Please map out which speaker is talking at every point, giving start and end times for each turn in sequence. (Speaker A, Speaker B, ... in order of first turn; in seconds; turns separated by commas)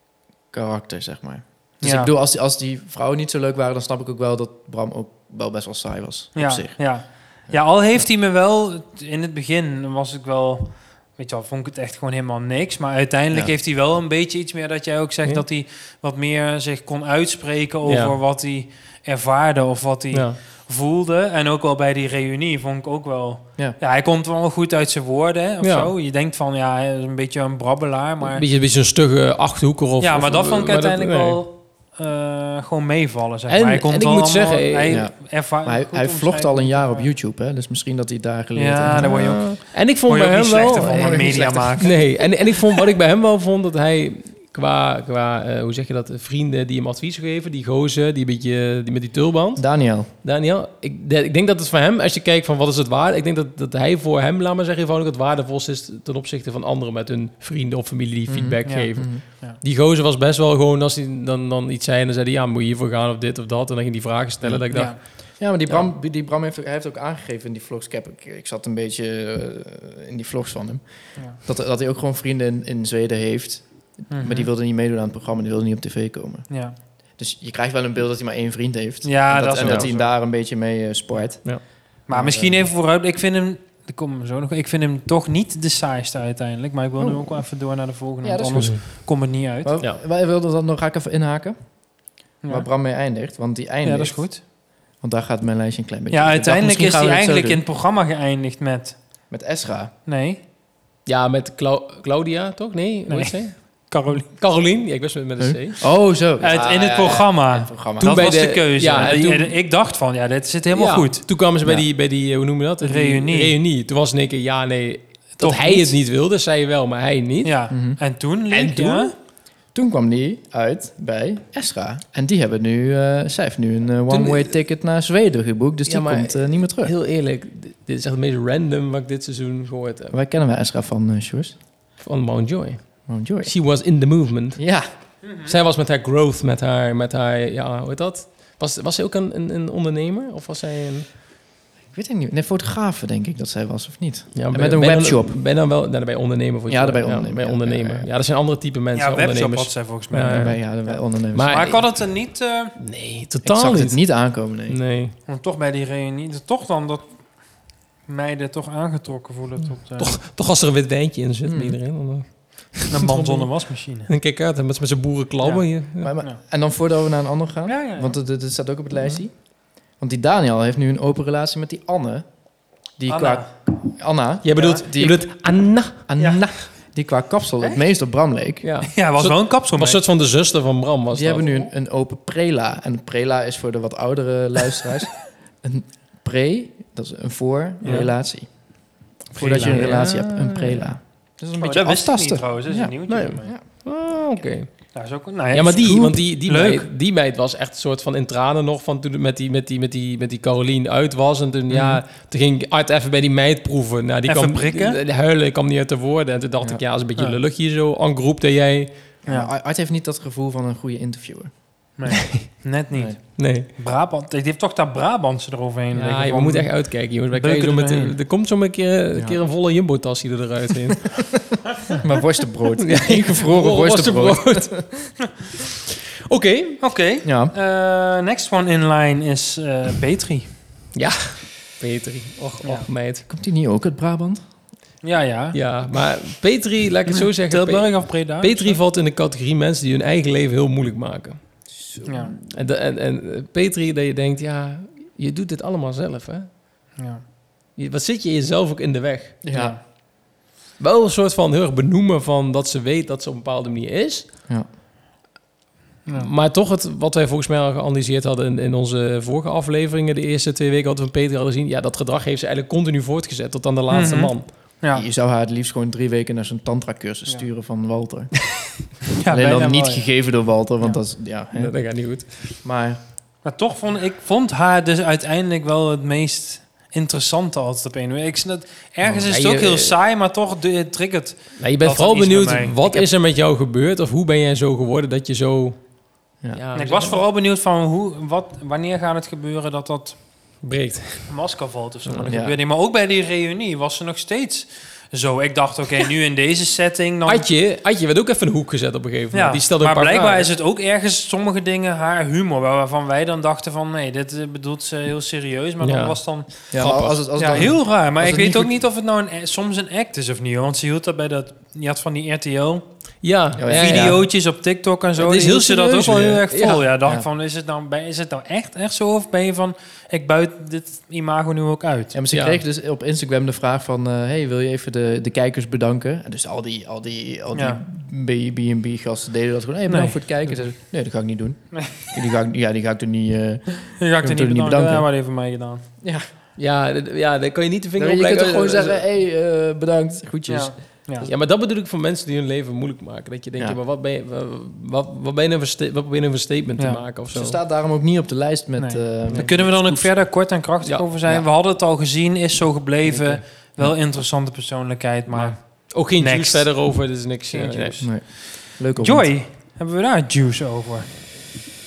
Speaker A: 0.5-6.8, Speaker B: 1.8-2.1, Speaker B: 6.3-28.4, Speaker C: 17.8-18.1, Speaker C: 20.1-20.4, Speaker C: 25.6-25.9, Speaker C: 28.2-31.4, Speaker B: 30.0-37.1, Speaker C: 33.5-35.0, Speaker A: 34.9-39.4, Speaker B: 38.5-42.1, Speaker C: 38.9-49.7, Speaker A: 40.6-42.1, Speaker A: 49.6-50.1, Speaker C: 50.2-65.1, Speaker A: 58.3-59.2, Speaker B: 58.6-59.6, Speaker A: 64.4-76.5, Speaker B: 64.7-65.0, Speaker B: 74.1-74.5, Speaker B: 76.5-76.8, Speaker A: 77.2-81.5, Speaker B: 79.0-80.1, Speaker C: 79.6-79.9, Speaker A: 82.1-82.6, Speaker B: 82.1-89.7, Speaker A: 87.0-87.4, Speaker A: 88.2-89.0, Speaker C: 88.5-88.8, Speaker A: 89.6-91.5, Speaker A: 92.5-94.2, Speaker B: 93.8-94.4, Speaker A: 95.0-97.6, Speaker B: 96.1-99.0, Speaker A: 99.3-99.9, Speaker B: 100.0-100.4, Speaker C: 101.0-105.8, Speaker B: 103.1-104.3, Speaker A: 105.4-108.3, Speaker B: 106.4-111.2, Speaker C: 108.0-109.5, Speaker C: 110.7-117.5, Speaker B: 112.8-113.5, Speaker B: 115.4-115.9, Speaker B: 117.4-119.1, Speaker A: 117.7-118.0, Speaker C: 118.5-119.1, Speaker A: 119.7-126.9, Speaker C: 124.1-124.5, Speaker C: 125.9-130.1, Speaker A: 130.1-131.6, Speaker C: 132.0-134.6, Speaker A: 133.1-133.5, Speaker A: 134.6-134.8, Speaker B: 135.2-135.5, Speaker C: 135.4-141.1, Speaker A: 141.9-145.4, Speaker C: 144.3-150.6, Speaker A: 146.7-148.1, Speaker B: 148.9-152.7, Speaker A: 150.3-151.7, Speaker C: 151.3-151.9, Speaker C: 152.8-154.0, Speaker A: 153.4-154.8, Speaker C: 154.7-155.1, Speaker B: 155.2-160.1, Speaker C: 160.0-163.5, Speaker A: 161.4-161.8, Speaker B: 162.9-164.1, Speaker C: 164.1-166.1, Speaker B: 165.4-165.7, Speaker A: 166.0-169.4, Speaker B: 167.7-168.1, Speaker A: 170.0-172.3, Speaker A: 173.0-175.3, Speaker B: 173.1-173.5, Speaker C: 174.4-176.0, Speaker B: 174.6-174.8, Speaker A: 176.1-178.7, Speaker C: 178.6-181.5, Speaker B: 178.9-180.0, Speaker A: 181.1-188.5, Speaker B: 187.8-188.1, Speaker A: 189.3-193.6, Speaker B: 189.4-189.9, Speaker C: 189.6-190.9, Speaker B: 191.6-193.5, Speaker C: 193.1-194.9, Speaker B: 194.9-196.8, Speaker C: 195.5-208.9, Speaker A: 195.8-196.2, Speaker A: 201.7-202.0, Speaker B: 204.2-205.0, Speaker A: 209.2-211.5, Speaker B: 212.0-216.8, Speaker C: 212.2-212.4, Speaker C: 213.4-213.7, Speaker C: 215.9-221.3, Speaker B: 217.3-218.1, Speaker A: 219.1-219.4, Speaker A: 221.1-221.4, Speaker A: 222.0-224.9, Speaker C: 222.8-225.6, Speaker C: 226.3-226.8, Speaker B: 226.8-230.5, Speaker A: 227.2-227.5, Speaker C: 230.9-233.2, Speaker A: 233.3-234.4, Speaker B: 235.0-235.6, Speaker C: 235.5-241.4, Speaker B: 237.1-238.8, Speaker A: 241.7-242.2, Speaker B: 242.0-242.3, Speaker C: 242.4-246.5, Speaker B: 247.0-247.2, Speaker C: 247.8-249.4, Speaker A: 249.4-249.8, Speaker B: 249.5-249.8, Speaker C: 250.8-254.3, Speaker C: 256.1-264.5, Speaker B: 263.9-265.1, Speaker A: 264.9-268.4, Speaker B: 269.2-270.1, Speaker A: 269.3-271.7, Speaker C: 271.5-272.6, Speaker A: 272.6-273.0, Speaker B: 273.4-283.1, Speaker C: 279.3-279.9, Speaker C: 281.6-285.8, Speaker C: 286.5-287.2, Speaker B: 286.7-290.2, Speaker C: 290.6-291.3, Speaker B: 291.3-297.4, Speaker A: 292.3-292.6, Speaker C: 297.2-300.5, Speaker B: 299.3-306.6, Speaker C: 305.8-307.7, Speaker A: 306.7-308.7, Speaker B: 307.4-312.8, Speaker C: 313.2-314.3, Speaker A: 313.6-314.2, Speaker B: 313.7-322.2, Speaker C: 315.2-316.9, Speaker A: 322.1-335.1, Speaker C: 322.3-322.6, Speaker B: 327.5-327.8, Speaker B: 329.9-330.6, Speaker B: 331.7-332.1, Speaker B: 334.0-335.8, Speaker C: 336.6-339.0, Speaker A: 338.0-341.3, Speaker B: 340.5-341.3, Speaker C: 341.2-347.6, Speaker A: 347.3-350.1, Speaker B: 348.8-361.1, Speaker C: 353.1-353.4, Speaker C: 355.3-358.0, Speaker A: 358.0-359.3